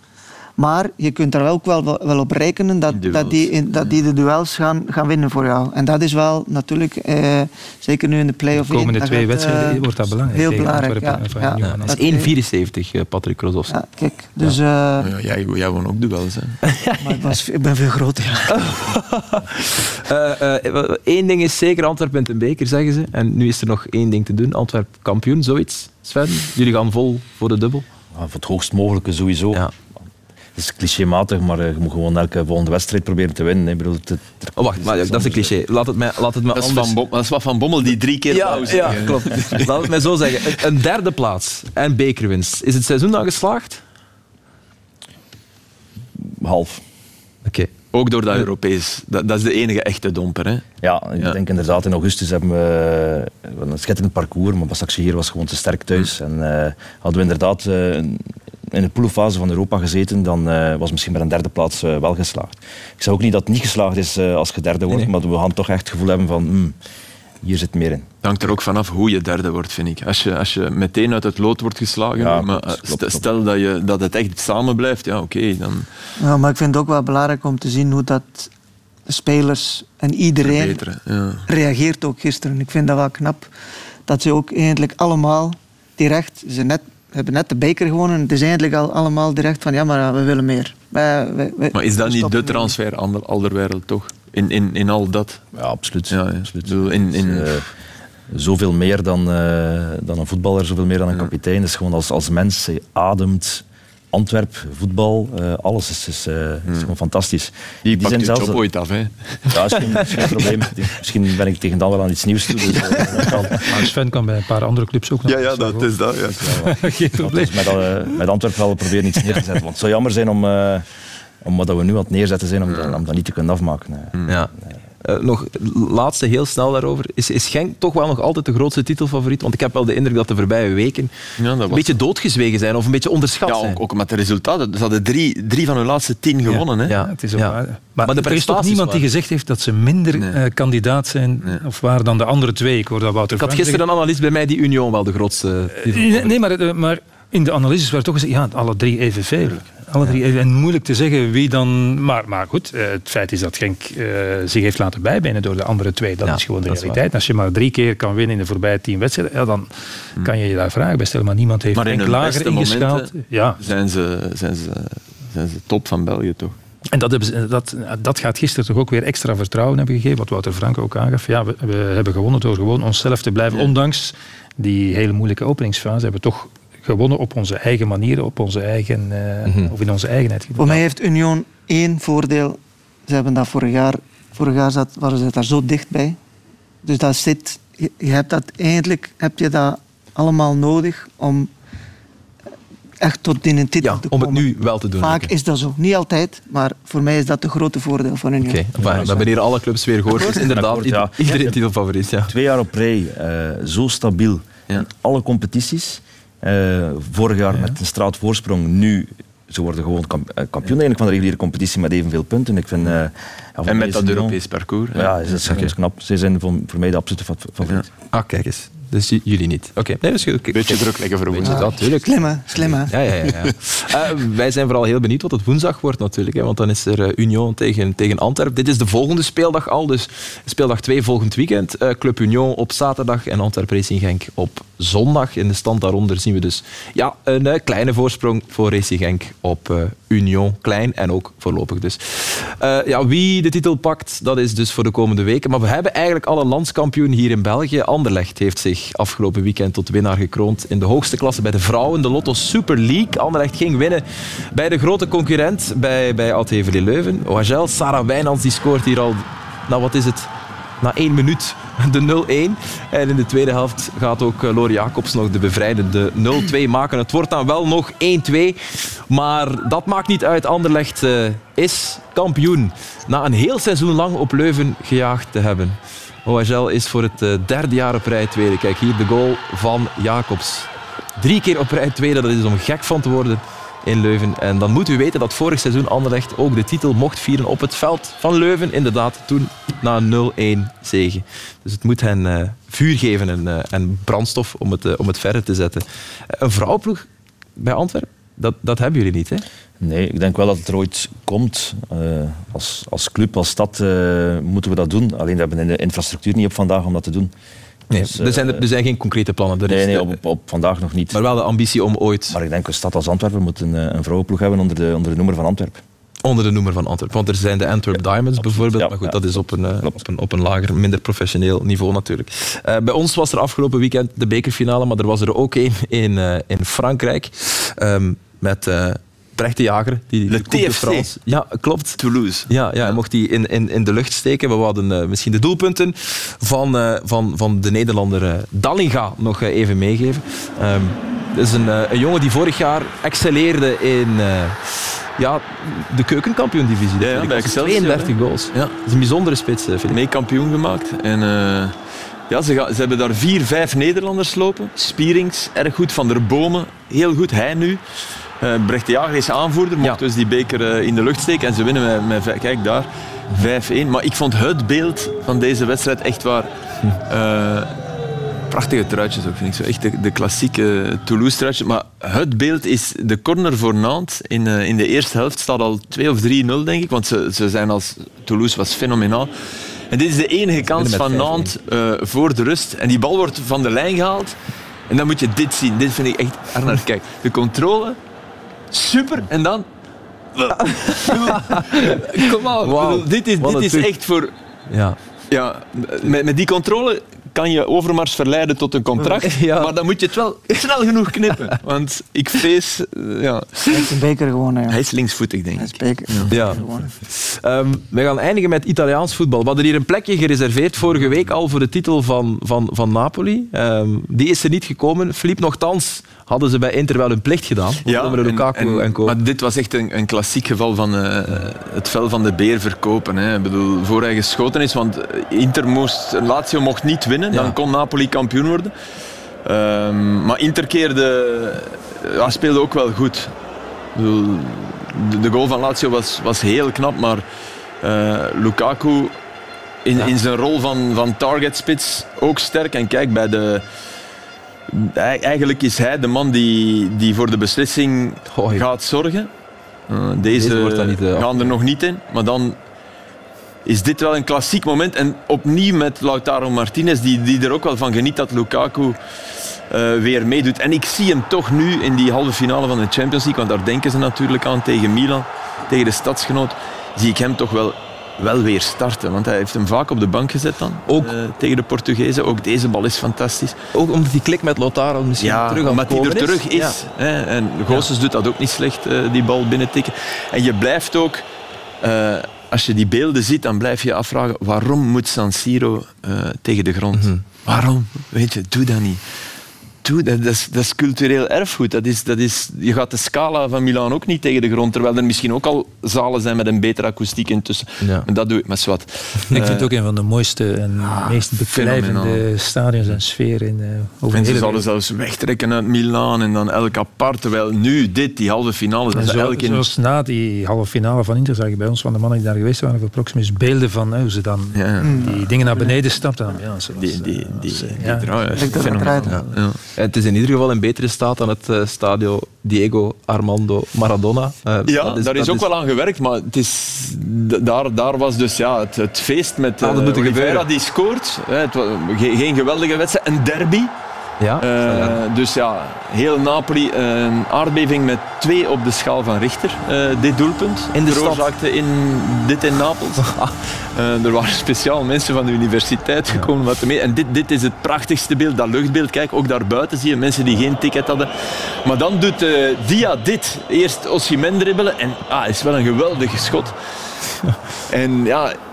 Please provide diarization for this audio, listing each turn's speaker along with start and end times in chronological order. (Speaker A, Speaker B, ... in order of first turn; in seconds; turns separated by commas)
Speaker A: 0.6-12.3, Speaker B: 2.9-4.0, Speaker C: 8.6-12.1, Speaker D: 11.6-13.7, Speaker A: 13.7-15.1, Speaker B: 15.0-16.6, Speaker D: 16.6-17.2, Speaker A: 17.0-18.6, Speaker D: 18.5-27.9, Speaker E: 28.1-29.6, Speaker E: 30.6-35.5, Speaker D: 34.6-36.9, Speaker B: 36.5-40.6, Speaker D: 38.3-43.8, Speaker E: 46.2-46.8, Speaker D: 47.5-47.7, Speaker B: 47.9-50.6, Speaker E: 50.8-66.8, Speaker E: 67.4-68.0, Speaker B: 68.2-75.9, Speaker E: 72.2-73.2, Speaker A: 76.2-78.5, Speaker A: 79.1-80.8, Speaker B: 80.4-81.5, Speaker A: 81.5-83.5, Speaker A: 84.1-92.7, Speaker B: 91.7-95.4, Speaker E: 95.5-97.7, Speaker B: 96.1-97.5, Speaker E: 98.3-108.6, Speaker B: 107.8-110.5, Speaker E: 109.5-113.5, Speaker B: 112.5-113.3, Speaker C: 113.6-115.9, Speaker B: 115.3-116.7, Speaker E: 116.5-120.9, Speaker C: 116.5-117.9, Speaker E: 121.4-124.1, Speaker B: 122.7-123.0, Speaker D: 125.0-131.1, Speaker B: 131.4-132.0, Speaker D: 131.7-133.8, Speaker B: 133.4-136.9, Speaker D: 136.5-139.1, Speaker C: 137.0-143.8, Speaker D: 143.3-146.3, Speaker C: 145.8-163.6, Speaker D: 156.2-157.0, Speaker B: 161.7-166.6, Speaker C: 166.9-180.8, Speaker D: 179.4-179.7, Speaker A: 180.6-186.2, Speaker A: 186.8-191.5, Speaker A: 193.0-199.3, Speaker D: 193.8-195.3, Speaker D: 198.4-202.3, Speaker E: 198.8-199.3, Speaker E: 200.3-201.6, Speaker E: 202.3-214.4, Speaker B: 213.7-215.2, Speaker E: 214.9-217.9, Speaker D: 218.1-260.3, Speaker B: 220.5-221.7, Speaker A: 221.4-222.9, Speaker D: 260.8-297.1, Speaker D: 297.6-299.4, Speaker E: 299.8-307.3, Speaker D: 307.9-310.1, Speaker E: 307.9-308.6, Speaker E: 309.7-311.2, Speaker D: 311.1-312.4, Speaker E: 312.3-315.8, Speaker D: 316.2-350.0, Speaker E: 317.9-319.9, Speaker B: 330.3-331.2, Speaker B: 332.0-333.0, Speaker B: 347.0-348.8, Speaker B: 349.9-351.8, Speaker B: 352.3-357.8, Speaker B: 358.4-366.5, Speaker B: 367.1-367.8, Speaker B: 368.5-379.3, Speaker B: 379.9-384.3, Speaker D: 380.7-381.5, Speaker B: 384.9-388.0, Speaker B: 388.7-389.7, Speaker B: 390.3-394.3, Speaker D: 390.5-393.9, Speaker D: 394.7-395.0, Speaker B: 395.3-403.9, Speaker D: 399.2-399.7, Speaker D: 401.3-401.6, Speaker A: 403.7-404.8, Speaker B: 404.7-406.3, Speaker A: 405.6-407.0, Speaker D: 406.3-419.2, Speaker B: 417.8-428.7, Speaker D: 427.3-427.6, Speaker B: 429.4-433.3, Speaker B: 433.9-437.2, Speaker B: 437.8-439.2, Speaker B: 439.8-443.6, Speaker B: 444.7-449.3, Speaker D: 448.3-448.6, Speaker B: 449.9-452.6, Speaker D: 450.3-451.3, Speaker B: 453.6-459.0, Speaker B: 459.7-473.6, Speaker D: 470.9-471.1, Speaker D: 473.7-476.8, Speaker B: 475.2-481.2, Speaker B: 481.8-489.1, Speaker D: 486.9-487.2, Speaker B: 489.8-499.7, Speaker D: 497.8-498.1, Speaker C: 499.3-504.6, Speaker B: 500.8-502.2, Speaker B: 504.1-509.7, Speaker C: 508.9-519.4, Speaker B: 514.5-514.9, Speaker A: 514.8-515.7, Speaker B: 516.7-519.6, Speaker A: 518.4-519.1, Speaker D: 519.8-525.5, Speaker B: 524.7-533.7, Speaker D: 529.6-530.5, Speaker D: 534.2-535.0, Speaker B: 534.4-543.1, Speaker D: 540.7-541.3, Speaker D: 543.0-543.4, Speaker B: 543.7-556.5, Speaker B: 557.7-558.4